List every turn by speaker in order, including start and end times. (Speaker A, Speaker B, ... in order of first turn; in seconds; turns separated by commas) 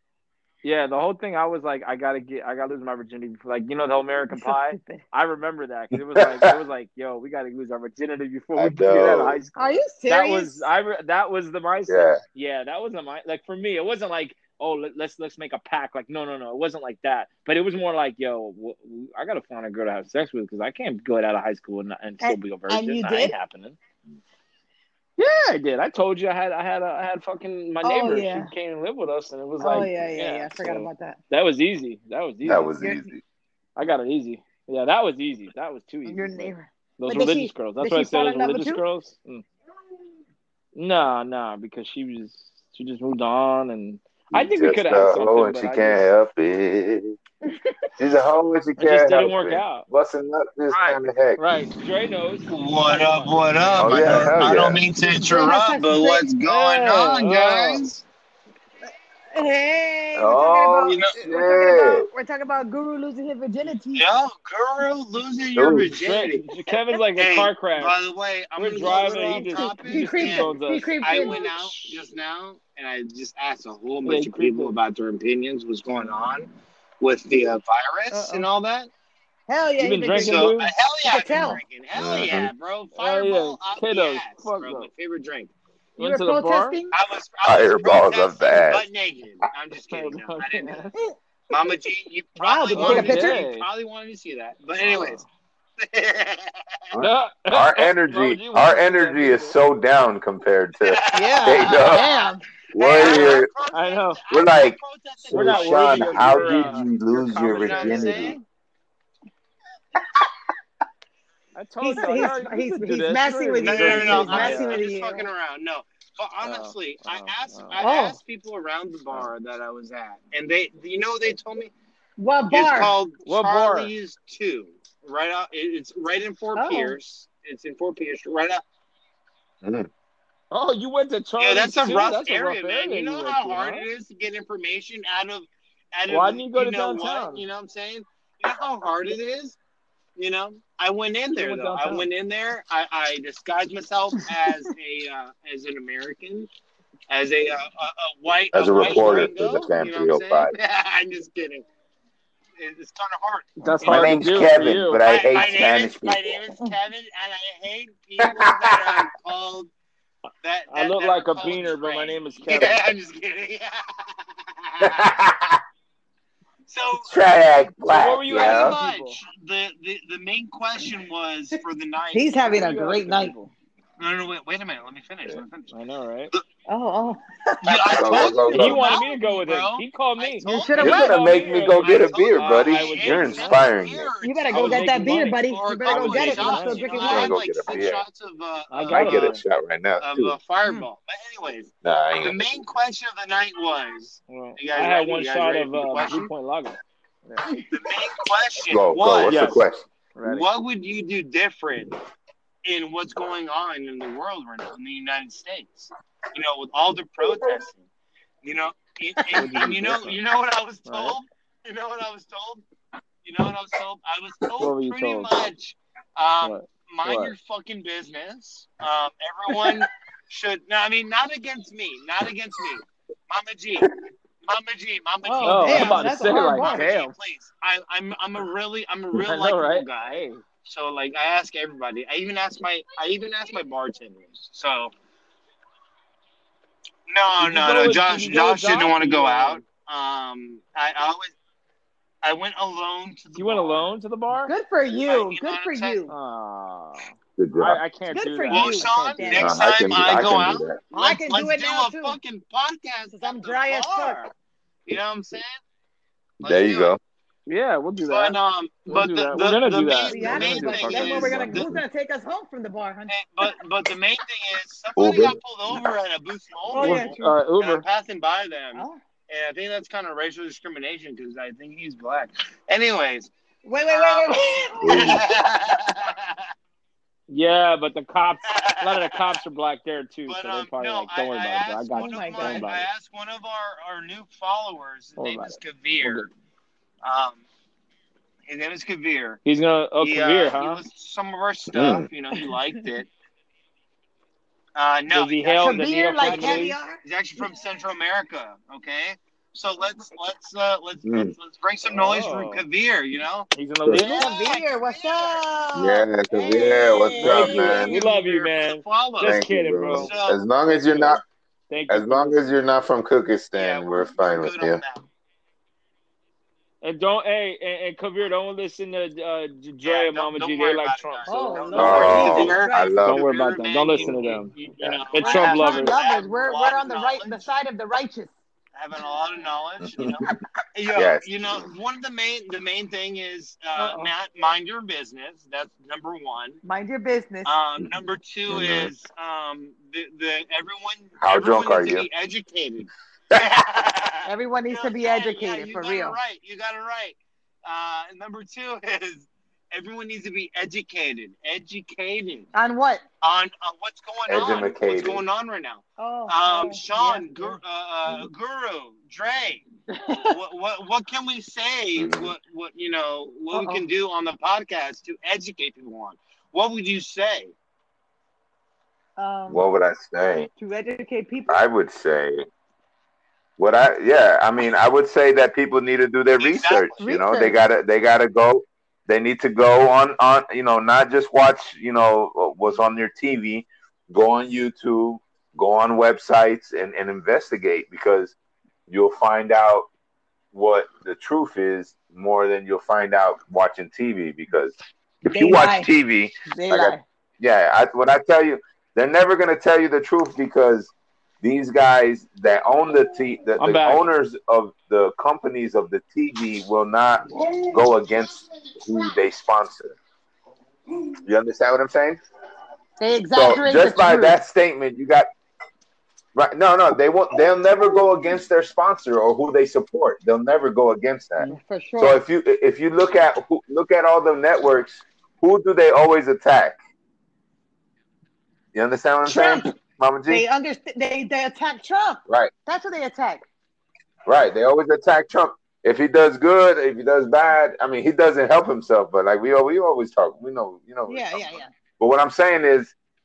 Speaker A: 0.6-23.8, Speaker B: 4.3-5.0, Speaker C: 6.2-6.5, Speaker C: 8.6-9.4, Speaker B: 9.6-10.7, Speaker C: 11.9-12.2, Speaker B: 22.2-23.3, Speaker A: 25.2-32.7, Speaker B: 27.8-28.5, Speaker B: 29.6-31.2, Speaker C: 32.4-33.2, Speaker B: 32.8-33.1, Speaker A: 33.8-39.4, Speaker B: 36.0-38.8, Speaker A: 40.7-46.0, Speaker C: 44.3-47.2, Speaker C: 48.0-51.4, Speaker A: 48.8-49.9, Speaker A: 50.7-54.3, Speaker D: 52.5-58.0, Speaker C: 53.8-54.9, Speaker B: 55.1-56.3, Speaker A: 56.4-57.8, Speaker B: 59.3-64.0, Speaker C: 60.1-62.1, Speaker D: 63.9-66.4, Speaker C: 65.5-65.9, Speaker A: 65.9-68.0, Speaker D: 67.2-76.5, Speaker B: 68.5-71.4, Speaker A: 68.6-72.0, Speaker A: 74.0-74.7, Speaker D: 77.0-78.9, Speaker B: 78.1-78.5, Speaker B: 79.5-80.5, Speaker A: 79.8-80.7, Speaker D: 80.1-85.5, Speaker B: 81.0-81.6, Speaker C: 81.9-82.5, Speaker A: 83.0-84.9, Speaker A: 86.0-86.8, Speaker B: 86.0-86.9, Speaker D: 86.9-90.8, Speaker C: 87.4-88.8, Speaker A: 89.9-91.0, Speaker D: 91.5-95.2, Speaker B: 92.4-93.4, Speaker A: 92.8-93.7, Speaker A: 94.8-95.2, Speaker D: 95.8-96.8, Speaker C: 96.9-102.1, Speaker A: 97.0-99.6, Speaker D: 100.8-108.4, Speaker B: 101.1-102.4, Speaker C: 102.7-103.5, Speaker A: 103.0-104.2, Speaker C: 104.3-108.3, Speaker A: 105.3-108.4, Speaker A: 111.5-114.8, Speaker B: 111.8-115.3, Speaker D: 113.6-121.7, Speaker A: 116.4-117.8, Speaker B: 117.8-118.2, Speaker B: 122.2-123.0, Speaker D: 122.5-128.6, Speaker A: 123.2-123.9, Speaker B: 126.5-127.0, Speaker C: 129.6-129.9, Speaker A: 130.5-133.9, Speaker D: 131.4-139.6, Speaker A: 136.1-137.4, Speaker D: 140.2-146.5, Speaker A: 141.3-142.1, Speaker D: 147.1-151.6, Speaker C: 148.5-150.5, Speaker A: 148.8-149.3, Speaker D: 152.6-154.2, Speaker A: 153.6-155.0, Speaker C: 153.8-156.3, Speaker D: 155.0-159.7, Speaker C: 158.2-159.1, Speaker D: 160.4-165.1, Speaker A: 160.7-162.8, Speaker C: 164.8-165.6, Speaker D: 166.7-167.2, Speaker C: 167.0-168.8, Speaker A: 167.9-169.2, Speaker D: 168.3-172.3, Speaker B: 172.1-173.4, Speaker A: 172.4-173.5, Speaker D: 174.0-175.7, Speaker A: 175.7-176.3, Speaker B: 176.7-179.0, Speaker D: 177.6-189.3, Speaker C: 177.9-178.8, Speaker A: 178.4-183.7, Speaker B: 180.4-181.1, Speaker C: 180.8-184.1, Speaker B: 184.2-187.3, Speaker A: 184.5-187.3, Speaker C: 187.0-188.0, Speaker A: 188.7-189.4, Speaker C: 188.9-190.4, Speaker D: 190.0-196.3, Speaker C: 191.8-192.4, Speaker A: 194.3-197.5, Speaker D: 197.7-199.4, Speaker C: 198.7-199.8, Speaker A: 199.3-199.6, Speaker A: 200.1-200.5, Speaker D: 200.2-201.9, Speaker D: 202.6-207.8, Speaker D: 208.4-212.6, Speaker B: 209.2-209.4, Speaker A: 209.3-210.2, Speaker A: 210.9-211.2, Speaker D: 213.2-223.9, Speaker A: 214.6-215.4, Speaker A: 216.4-217.3, Speaker D: 224.4-234.9, Speaker B: 225.2-226.8, Speaker A: 225.4-227.1, Speaker A: 229.1-230.4, Speaker D: 237.1-241.3, Speaker A: 237.4-239.6, Speaker D: 242.2-243.9, Speaker A: 243.3-244.5, Speaker B: 244.4-246.1, Speaker D: 245.1-246.0, Speaker A: 246.1-249.5, Speaker C: 247.4-247.8, Speaker B: 248.1-249.6, Speaker D: 248.5-254.3, Speaker C: 249.4-250.8, Speaker B: 250.9-252.2, Speaker B: 253.1-254.3, Speaker D: 254.8-255.6, Speaker D: 256.4-256.9, Speaker C: 256.4-257.0, Speaker A: 257.5-261.6, Speaker D: 258.1-261.7, Speaker B: 260.1-263.5, Speaker C: 261.4-261.8, Speaker D: 263.1-273.3, Speaker C: 264.9-265.4, Speaker B: 266.7-267.3, Speaker A: 266.7-267.8, Speaker B: 268.7-269.0, Speaker B: 273.6-275.2, Speaker D: 273.9-276.4, Speaker C: 274.8-275.2, Speaker A: 277.3-282.9, Speaker D: 278.5-279.2, Speaker D: 280.2-286.3, Speaker B: 281.9-282.7, Speaker A: 285.2-286.3, Speaker D: 287.0-287.4, Speaker D: 288.4-289.4, Speaker A: 289.4-290.8, Speaker D: 290.0-293.1, Speaker C: 291.7-292.1, Speaker D: 294.7-305.4, Speaker A: 295.1-296.8, Speaker B: 295.6-297.0, Speaker C: 301.0-301.3, Speaker A: 301.8-302.6, Speaker A: 303.5-304.2, Speaker B: 304.2-307.7, Speaker C: 305.7-307.9, Speaker A: 307.2-310.1, Speaker D: 307.3-310.4, Speaker C: 309.2-311.2, Speaker A: 310.9-312.4, Speaker C: 311.9-314.8, Speaker D: 313.5-315.1, Speaker A: 316.8-322.5, Speaker D: 319.8-327.5, Speaker B: 321.2-323.0, Speaker C: 321.7-323.2, Speaker A: 323.0-324.5, Speaker C: 323.9-325.0, Speaker A: 325.1-325.9, Speaker B: 325.2-328.3, Speaker D: 328.7-336.6, Speaker C: 329.8-330.3, Speaker C: 330.9-331.6, Speaker B: 333.7-334.1, Speaker B: 336.6-337.6, Speaker D: 337.4-352.5, Speaker C: 338.5-338.9, Speaker C: 341.2-342.1, Speaker B: 344.2-346.2, Speaker B: 352.5-353.0, Speaker D: 353.2-359.6, Speaker C: 354.3-355.2, Speaker B: 356.0-357.6, Speaker B: 359.9-360.4, Speaker D: 360.3-367.5, Speaker C: 361.9-362.3, Speaker B: 363.5-363.8, Speaker B: 369.2-369.6, Speaker C: 369.5-370.5, Speaker B: 370.6-371.6, Speaker C: 371.5-372.4, Speaker C: 373.6-388.3, Speaker D: 376.4-377.0, Speaker B: 377.0-377.6, Speaker C: 388.9-389.9, Speaker C: 390.5-410.0, Speaker B: 395.3-395.9, Speaker B: 396.5-397.0, Speaker A: 403.6-404.1, Speaker C: 411.2-412.2, Speaker B: 413.0-414.4, Speaker C: 413.3-415.3, Speaker C: 416.3-426.8, Speaker B: 421.4-422.2, Speaker C: 428.7-430.4, Speaker B: 429.2-429.7, Speaker B: 430.3-433.4, Speaker C: 432.3-432.5, Speaker C: 434.2-442.9, Speaker B: 441.1-441.7